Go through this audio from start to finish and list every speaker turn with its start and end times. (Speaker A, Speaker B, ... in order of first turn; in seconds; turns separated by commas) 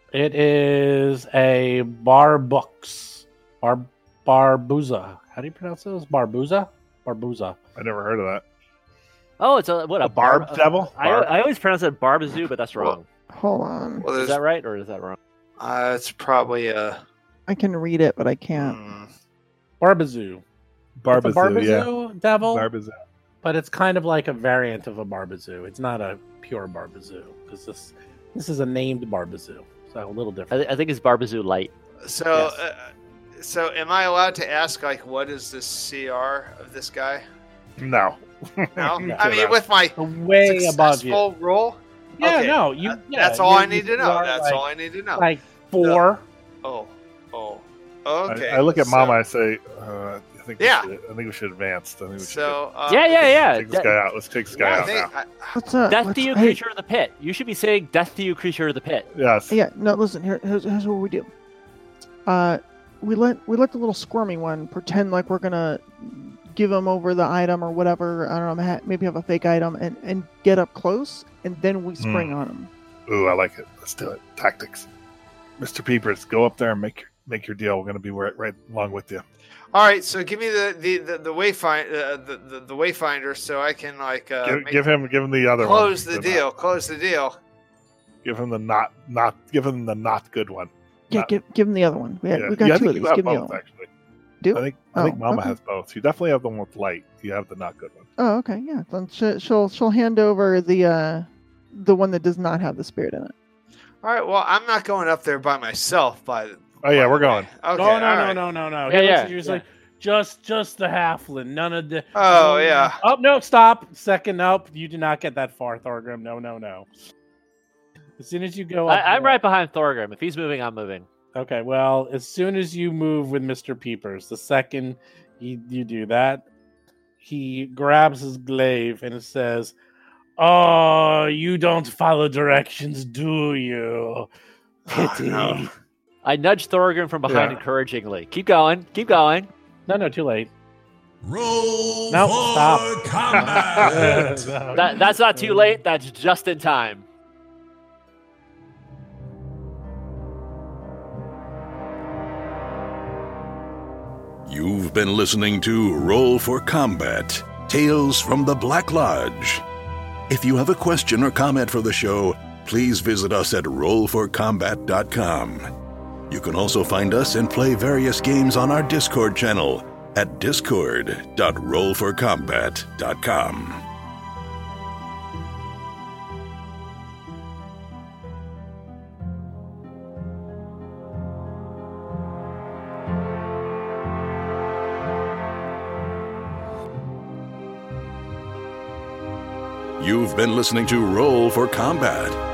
Speaker A: 0.1-7.6, Speaker B: 7.8-8.4, Speaker C: 9.4-13.1, Speaker B: 10.0-11.3, Speaker D: 13.3-14.1, Speaker E: 14.0-14.4, Speaker C: 14.1-15.2, Speaker E: 15.6-17.0, Speaker D: 17.5-18.8, Speaker E: 18.6-19.1, Speaker A: 19.8-20.4, Speaker B: 21.0-22.9, Speaker A: 21.1-22.7, Speaker A: 23.4-30.6, Speaker C: 30.5-31.7, Speaker E: 32.0-37.2, Speaker B: 37.8-39.5, Speaker E: 38.7-45.3, Speaker A: 39.0-39.4, Speaker A: 40.0-41.2, Speaker A: 42.2-44.6, Speaker A: 45.1-46.2, Speaker E: 46.6-49.2, Speaker B: 48.2-52.6, Speaker E: 50.6-50.9, Speaker E: 52.2-53.3, Speaker C: 52.9-54.0, Speaker B: 53.4-55.1, Speaker E: 54.5-55.5, Speaker D: 55.5-56.6, Speaker C: 55.9-59.1, Speaker B: 59.1-59.5, Speaker D: 59.5-61.3, Speaker D: 62.2-72.7, Speaker B: 72.0-72.3, Speaker B: 73.1-74.9, Speaker B: 75.6-79.2, Speaker E: 79.7-84.8, Speaker B: 84.4-86.4, Speaker E: 85.6-87.3, Speaker B: 88.2-91.3, Speaker D: 91.1-93.6, Speaker B: 92.3-93.9, Speaker D: 94.4-95.6, Speaker B: 94.5-98.1, Speaker D: 98.2-103.3, Speaker E: 104.0-108.4, Speaker B: 106.8-107.5, Speaker A: 107.7-116.9, Speaker C: 108.9-109.6, Speaker E: 112.2-113.0, Speaker A: 118.2-119.4, Speaker C: 118.9-121.0, Speaker A: 121.3-126.5, Speaker A: 127.2-129.7, Speaker A: 130.4-134.3, Speaker A: 134.9-135.7, Speaker E: 134.9-135.7, Speaker C: 136.2-139.5, Speaker B: 137.3-137.6, Speaker A: 139.9-140.5, Speaker F: 141.2-144.6, Speaker A: 142.1-145.8, Speaker B: 143.3-144.3, Speaker C: 144.7-147.0, Speaker F: 154.4-159.6, Speaker F: 160.3-165.7, Speaker F: 166.3-173.8, Speaker F: 190.0-192.4